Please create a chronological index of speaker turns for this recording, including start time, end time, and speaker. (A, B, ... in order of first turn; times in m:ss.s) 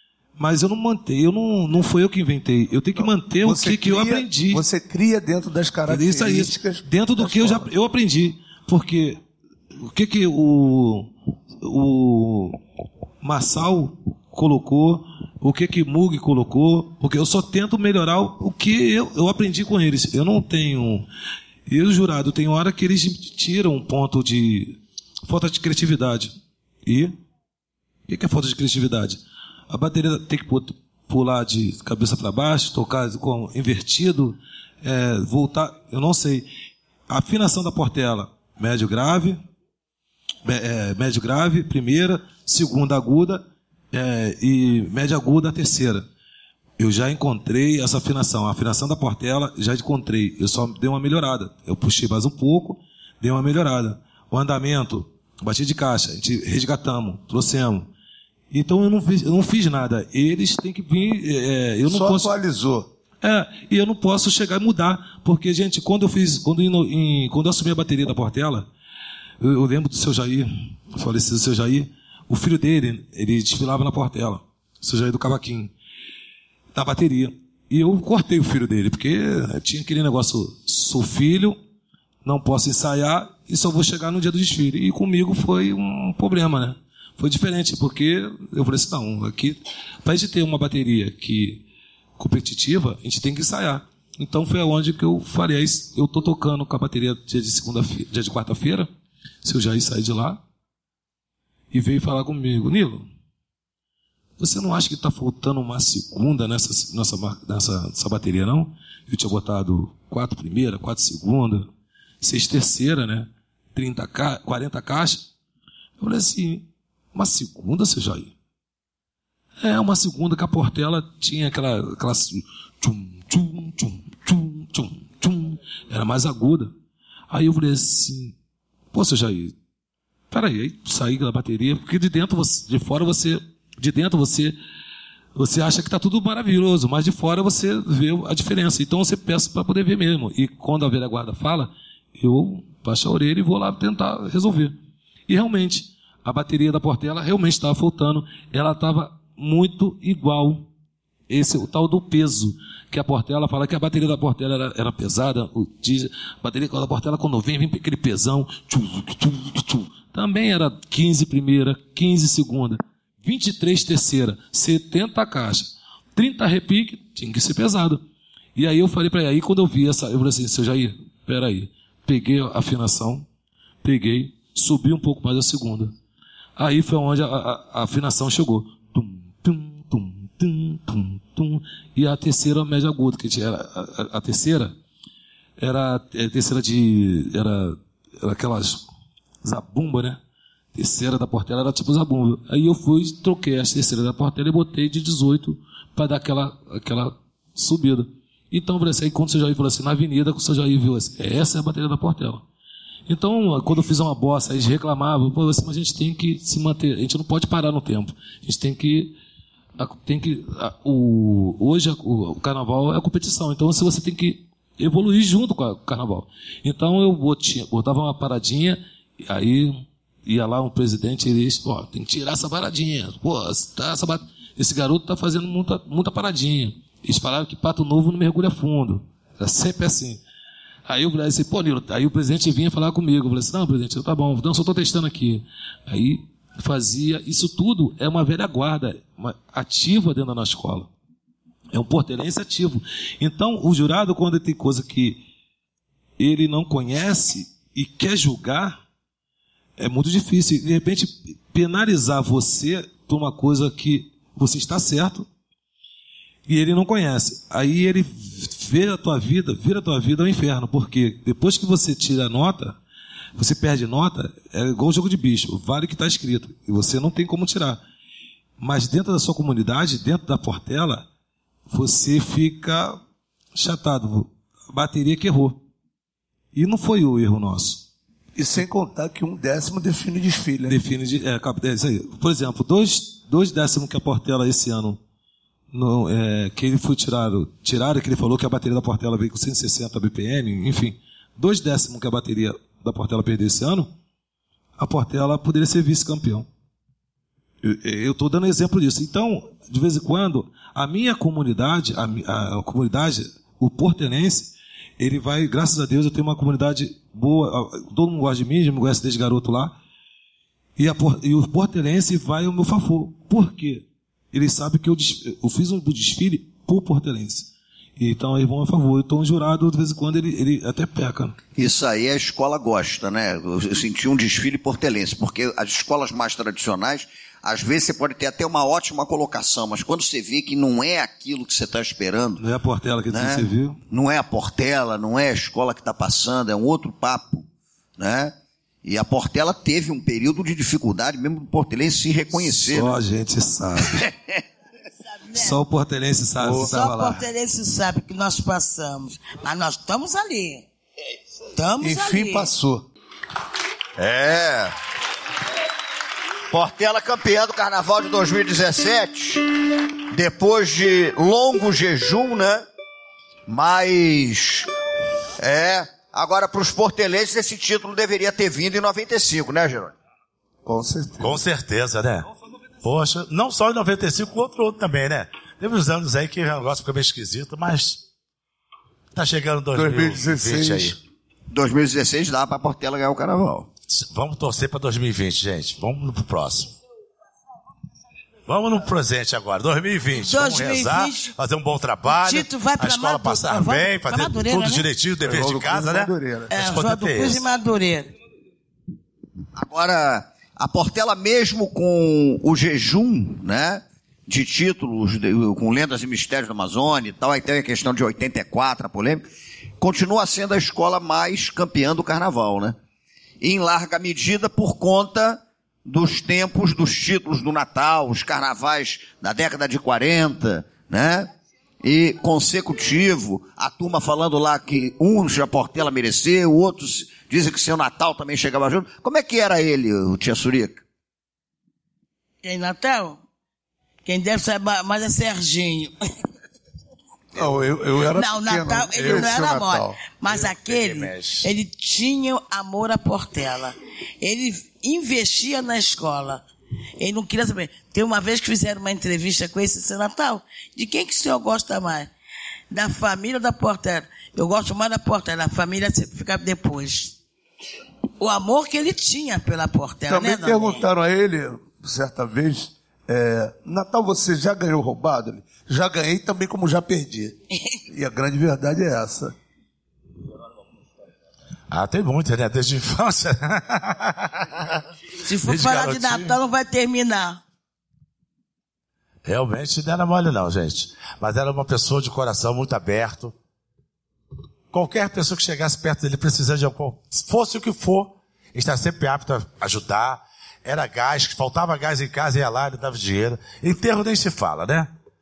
0:00.4-0:04.6 A
0:03.0-0:07.7 B
0:05.9-0:09.2 A
0:09.8-0:11.1 A
0:11.6-0:12.6 A
0:13.2-0:21.1 A
0:21.7-0:26.3 A
0:26.8-0:27.1 A
0:28.1-0:36.5 A
0:37.1-0:39.4 A
0:40.4-0:46.0 A
0:46.8-0:57.9 A
0:58.5-1:02.3 A
1:01.8-1:02.9 B
1:03.2-1:08.7 A
1:09.4-1:15.7 A
1:16.7-1:21.6 A
1:22.2-1:31.6 A
1:32.2-1:38.9 A
1:39.4-1:40.4 A
1:41.7-1:43.0 A
1:44.4-1:51.7 A
1:52.2-1:55.3 A
1:56.0-1:58.3 A
1:59.6-2:06.7 A
2:07.3-2:08.3 A
2:08.9-2:09.5 A
2:10.3-2:14.5 A
2:15.4-2:24.7 A
2:25.3-2:30.7 A
2:31.3-2:48.0 A
2:48.6-2:53.2 A
2:53.8-2:55.9 A
2:56.6-3:04.7 A
3:05.6-3:08.8 A
3:09.4-3:10.2 A
3:10.7-3:22.4 A
3:23.1-3:29.2 A
3:29.8-3:50.2 A
3:50.8-4:00.9 A
4:01.7-4:05.2 A
4:06.2-4:08.8 A
4:09.8-4:15.3 A
4:16.5-4:22.8 A
4:23.4-4:27.8 A
4:28.6-4:31.1 A
4:31.7-4:33.0 A
4:33.5-4:35.6 A
4:36.5-4:37.8 A
4:38.4-4:40.8 B
4:40.7-4:45.0 A
4:45.7-4:53.9 A
4:54.8-4:56.5 A
4:57.6-5:09.8 A
5:10.8-5:21.4 A
5:21.6-5:32.4 C
5:32.4-5:33.8 A
5:33.1-5:37.4 C
5:38.0-5:43.0 C
5:42.3-5:44.0 A
5:43.8-5:44.4 C
5:45.1-5:45.6 D
5:45.3-5:47.3 A
5:46.5-5:50.6 D
5:51.5-5:52.5 D
5:51.8-5:52.9 B
5:54.0-5:54.7 C
5:56.5-5:59.4 C
6:00.1-6:02.6 C
6:03.5-6:04.7 C
6:05.4-6:09.9 C
6:10.6-6:11.4 B
6:11.2-6:12.3 E
6:12.8-6:18.0 E
6:19.1-6:21.0 E
6:19.7-6:21.0 B
6:21.5-6:23.7 C
6:24.0-6:26.7 E
6:28.5-6:37.4 E
6:30.1-6:31.3 D
6:32.0-6:34.8 D
6:35.2-6:36.5 B
6:36.5-6:38.1 D
6:39.5-6:49.2 C
6:49.8-6:52.8 C
6:53.4-7:01.3 C
7:01.8-7:10.8 C
7:12.4-7:13.2 D
7:14.0-7:15.9 D
7:17.3-7:20.0 B
7:18.1-7:26.4 D
7:19.0-7:19.3 E
7:20.2-7:21.5 E
7:27.0-7:32.1 D
7:32.7-7:37.1 D
7:38.2-7:40.8 D
7:40.1-7:47.4 B
7:47.5-7:47.8 D
7:47.9-7:49.3 B
7:51.7-7:54.7 E
7:55.2-7:57.4 D
7:55.4-7:56.4 E
7:59.2-8:03.3 E
8:04.7-8:14.9 E